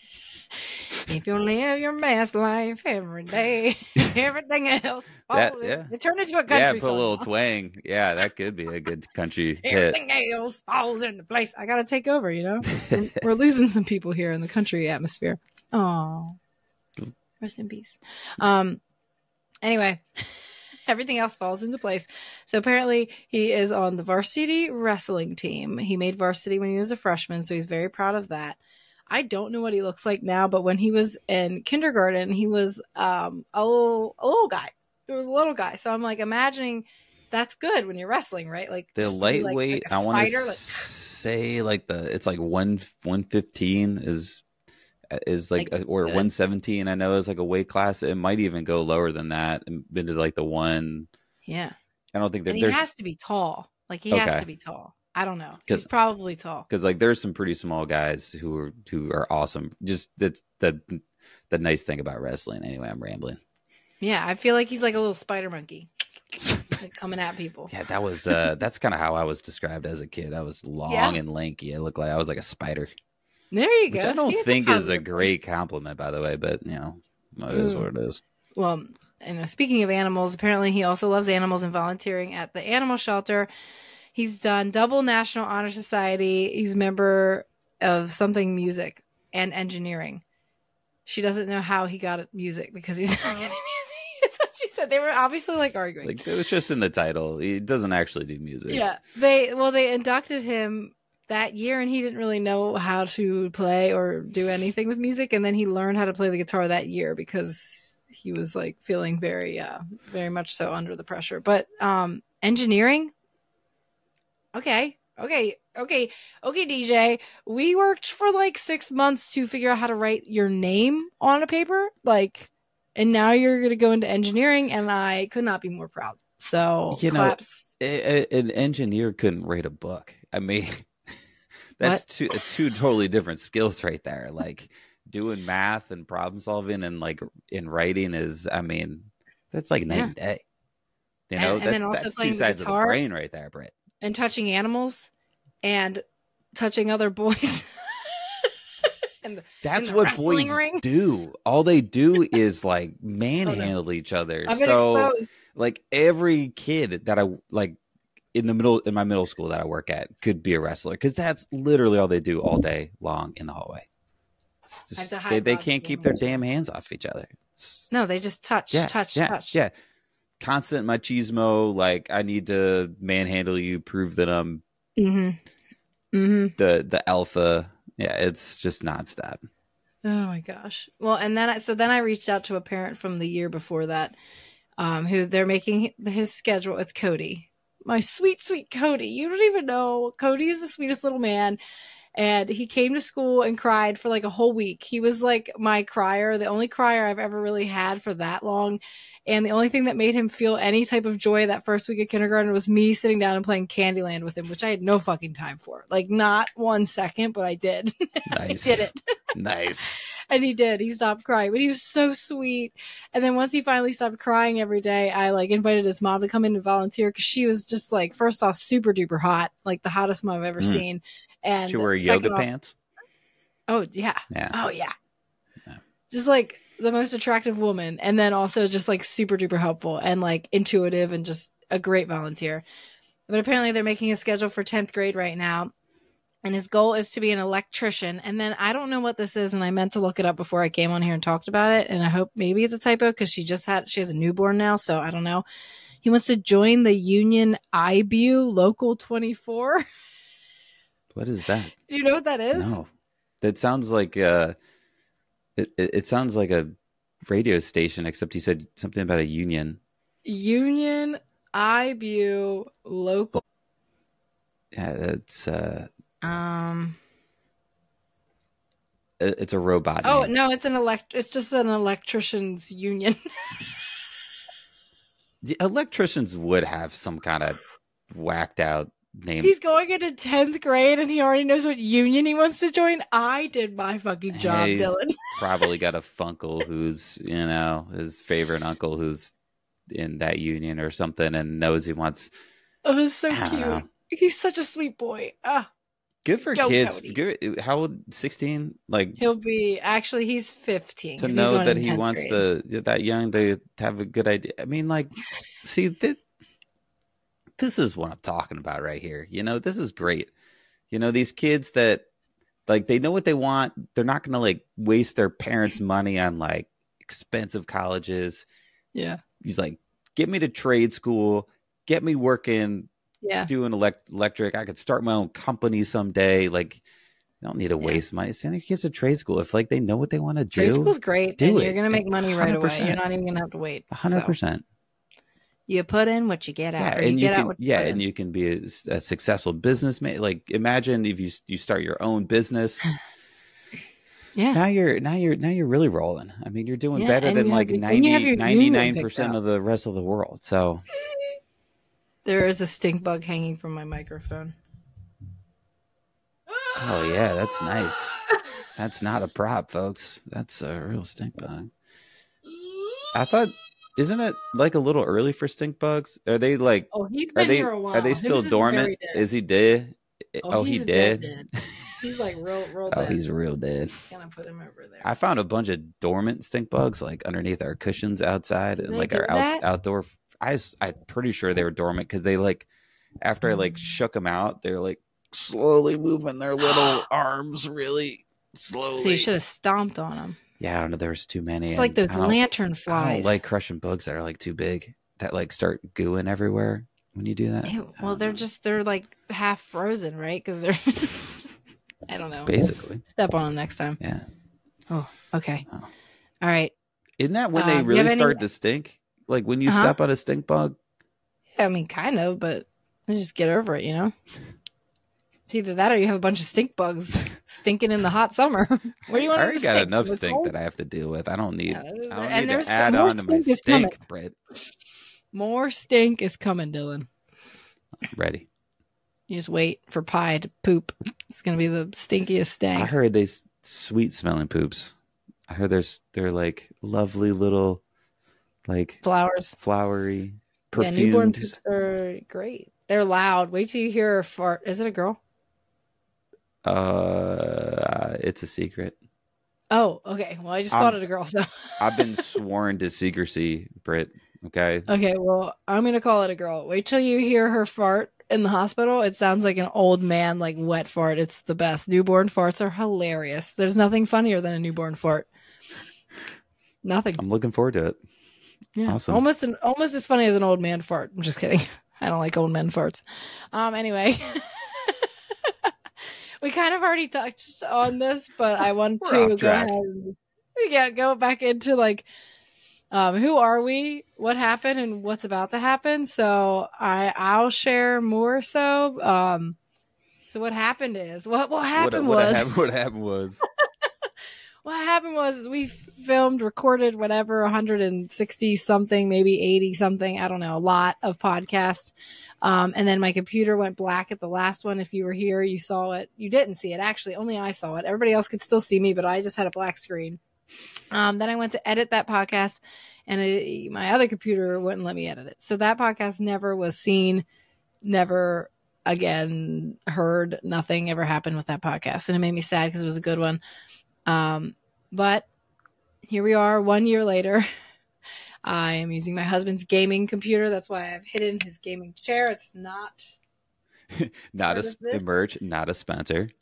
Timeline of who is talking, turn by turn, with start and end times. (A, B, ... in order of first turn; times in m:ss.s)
0:00.9-0:07.3 A
0:05.3-0:05.9 B
0:06.5-0:10.0 B
0:09.6-0:16.4 A
0:12.7-0:13.0 B
0:17.4-0:18.8 A
0:19.6-0:28.6 A
0:29.1-0:40.9 A
0:39.0-0:44.4 B
0:45.1-0:51.1 B
0:45.6-0:46.3 A
0:51.5-0:51.8 A
0:52.1-0:52.8 B
0:52.5-0:56.7 A
0:54.1-0:54.5 B
0:56.7-1:03.4 B
1:04.0-1:05.9 A
1:06.7-1:07.7 A
1:07.7-1:12.9 B
1:10.9-1:11.2 A
1:13.5-1:15.3 A
1:13.9-1:18.2 B
1:17.5-1:17.9 A
1:18.6-1:23.5 A
1:24.2-1:30.2 A
1:31.1-1:36.2 A
1:36.0-1:38.8 B
1:38.7-1:53.1 A
1:54.5-2:07.7 A
2:06.9-2:11.2 B
2:11.8-2:20.4 B
2:21.3-2:23.8 B
2:21.4-2:23.0 A
2:24.0-2:25.1 A
2:25.6-2:26.0 A
2:26.6-2:28.5 A
2:29.2-2:30.8 A
2:29.6-2:37.8 B
2:33.4-2:33.7 A
2:34.5-2:35.3 A
2:38.3-2:43.9 B
2:44.7-2:47.9 B
2:45.0-2:46.2 A
2:47.9-2:49.6 A
2:48.7-2:49.7 B
2:50.4-2:54.6 B
2:55.0-2:55.4 A
2:56.1-2:56.6 A
2:56.6-2:59.4 B
3:00.0-3:04.2 A
3:04.8-3:11.6 A
3:12.2-3:29.0 A
3:28.3-3:30.0 B
3:30.3-3:42.5 A
3:41.7-3:42.8 B
3:43.7-3:44.9 A
3:46.1-3:52.6 A
3:53.3-3:55.7 A
3:56.4-4:05.4 A
4:06.0-4:09.8 A
4:11.1-4:11.7 B
4:11.9-4:12.8 A
4:12.5-4:12.9 B
4:13.4-4:14.6 B
4:15.6-4:16.7 B
4:17.2-4:19.8 B
4:20.2-4:23.4 A
4:24.7-4:25.9 B
4:26.2-4:27.0 A
4:29.2-4:30.3 B
4:30.0-4:33.7 A
4:35.4-4:37.6 B
4:38.1-4:39.6 B
4:39.4-4:45.4 A
4:44.3-4:49.3 B
4:49.9-4:52.3 B
4:52.8-4:55.7 A
4:53.3-4:53.9 B
4:56.2-4:59.2 B
4:56.5-4:57.2 A
4:59.2-5:02.4 A
5:01.2-5:06.2 B
5:07.6-5:10.3 B
5:10.9-5:12.1 B
5:12.7-5:18.4 B
5:19.0-5:19.2 A
5:19.4-5:22.9 B
5:23.2-5:23.5 A
5:23.5-5:26.8 B
5:27.4-5:33.0 B
5:30.6-5:34.3 A
5:33.9-5:34.6 B
5:35.7-5:38.0 A
5:36.8-5:42.8 B
5:44.4-5:44.6 A
5:44.5-5:50.8 B
5:47.0-5:49.4 A
5:52.2-5:54.6 A
5:56.7-5:57.1 A
5:56.8-5:58.2 B
5:58.8-6:01.7 B
6:03.1-6:12.0 B
6:06.9-6:09.2 A
6:10.4-6:13.2 A
6:12.9-6:13.9 B
6:14.1-6:15.1 A
6:15.0-6:22.7 B
6:18.8-6:19.6 A
6:23.2-6:29.3 B
6:26.6-6:27.0 A
6:29.0-6:30.4 A
6:30.6-6:38.4 B
6:31.8-6:33.4 A
6:37.6-6:41.3 A
6:42.1-6:44.0 A
6:42.5-6:43.0 B
6:44.0-6:44.3 B
6:44.9-6:45.6 A
6:46.4-6:46.7 A
6:47.2-6:50.8 B
6:47.6-6:48.4 A
6:49.7-6:49.9 A
6:51.6-6:54.1 A
6:55.5-7:00.5 A
6:59.1-7:04.4 B
7:01.7-7:04.0 A
7:05.3-7:07.1 A
7:08.1-7:08.5 B
7:09.3-7:12.9 A
7:12.8-7:15.0 B
7:15.5-7:17.8 B
7:18.7-7:19.0 B
7:19.0-7:19.6 A
7:19.6-7:21.6 B
7:20.8-7:25.2 A
7:26.6-7:29.0 B
7:29.7-7:32.2 A
7:30.7-7:31.0 B
7:31.8-7:34.9 B
7:34.9-7:45.3 A
7:46.8-7:47.2 A
7:47.2-7:48.0 B
7:48.8-7:55.7 A
7:48.9-7:49.2 B
7:56.4-8:02.1 A
7:59.0-7:59.8 B
8:02.9-8:09.6 A
8:10.3-8:12.5 A
8:11.8-8:13.5 B
8:14.6-8:30.2 A
8:30.9-8:37.2 A
8:37.8-8:43.4 A
8:44.1-8:45.3 A
8:46.1-8:47.5 A
8:48.5-8:53.1 A
8:53.9-8:56.3 B
8:54.5-8:55.0 A